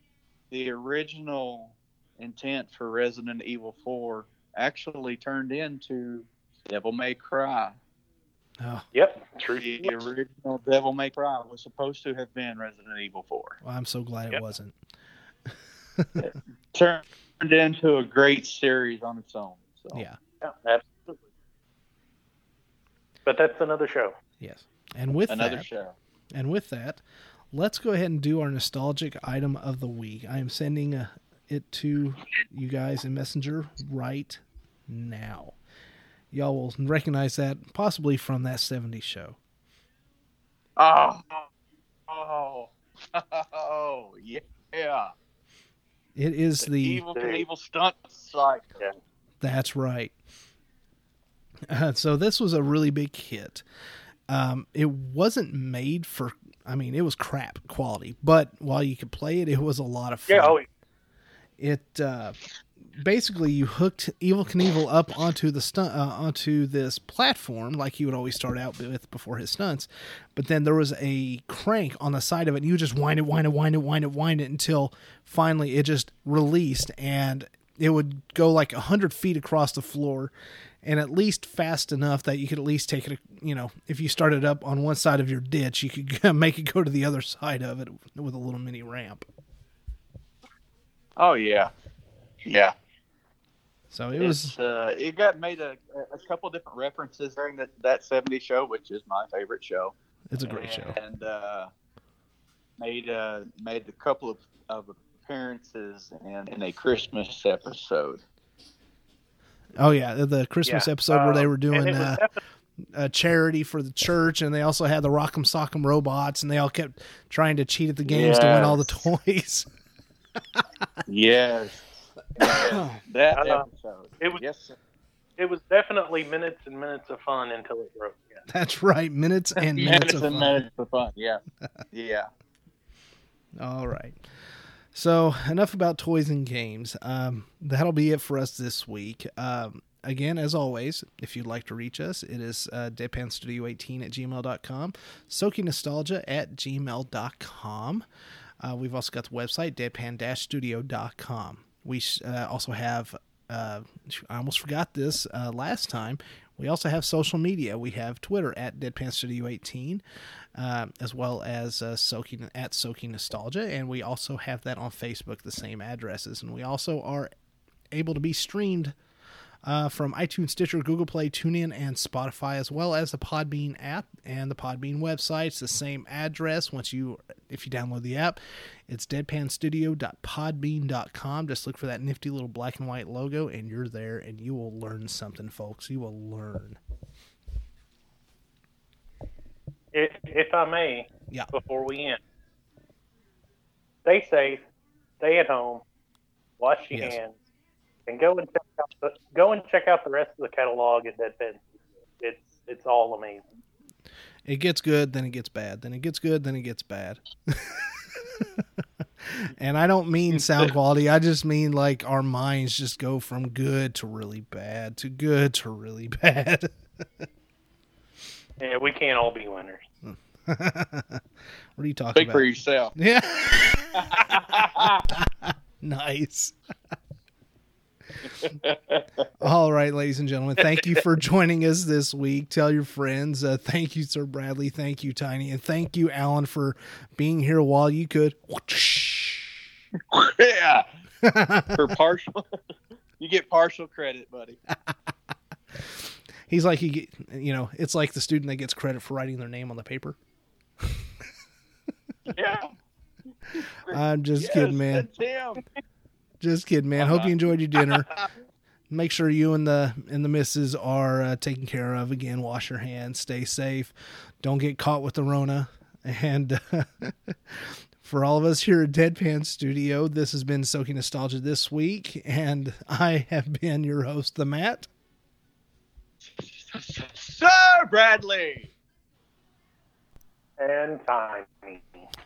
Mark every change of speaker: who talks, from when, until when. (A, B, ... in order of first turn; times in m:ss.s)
0:00.5-0:07.8 A
0:08.6-0:08.9 B
0:08.9-0:10.0 C
0:09.6-0:13.6 A
0:13.6-0:14.8 B
0:15.5-0:16.3 B
0:16.2-0:20.0 A
0:19.9-0:20.2 B
0:20.4-0:21.2 C
0:23.3-0:24.1 C
0:24.4-0:25.7 B
0:25.3-0:26.0 A
0:26.3-0:35.6 B
0:36.3-0:39.4 B
0:40.8-0:41.5 A
0:42.1-0:45.1 A
0:46.2-0:47.0 B
0:46.6-0:48.8 A
0:47.1-0:47.4 C
0:49.4-0:50.1 B
0:51.7-0:53.6 B
0:54.3-1:00.6 B
1:00.3-1:00.6 C
1:01.6-1:20.3 B
1:20.8-1:29.3 B
1:31.2-1:31.7 A
1:32.4-1:32.7 A
1:33.9-1:34.5 B
1:34.2-1:39.9 A
1:40.3-1:41.0 B
1:40.4-1:41.7 A
1:42.8-1:48.2 A
1:49.8-1:52.2 B
1:50.6-1:52.4 C
1:52.8-1:59.7 B
1:58.1-1:58.8 A
2:01.1-2:01.8 A
2:02.4-2:04.8 A
2:02.4-2:03.0 B
2:03.3-2:03.7 C
2:05.4-2:08.4 C
2:08.5-2:10.6 B
2:09.6-2:12.3 A
2:13.6-2:28.0 B
2:28.6-2:40.0 B
2:40.6-2:47.3 B
2:47.9-2:49.0 B
2:49.6-3:06.8 B
3:09.9-3:12.2 C
3:14.0-3:14.6 C
3:15.2-3:15.8 C
3:16.6-3:17.4 C
3:16.9-3:17.2 B
3:18.1-3:21.6 C
3:22.2-3:23.5 C
3:24.4-3:28.6 B
3:29.2-3:37.2 B
3:30.3-3:30.7 A
3:38.6-3:39.8 C
3:40.0-3:41.2 B
3:41.8-3:42.4 B
3:42.2-3:43.0 A
3:43.0-3:46.6 B
3:44.0-3:45.1 A
3:48.3-3:49.3 A
3:49.4-3:59.6 B
4:00.1-4:00.9 A
4:01.2-4:02.0 B
4:01.8-4:02.5 A
4:03.2-4:04.6 A
4:05.7-4:10.2 B
4:12.3-4:12.7 A
4:13.5-4:15.6 A
4:13.9-4:15.1 B
4:16.4-4:18.1 B
4:17.0-4:18.3 A
4:18.9-4:34.9 B
4:36.2-4:38.7 A
4:40.6-4:42.0 C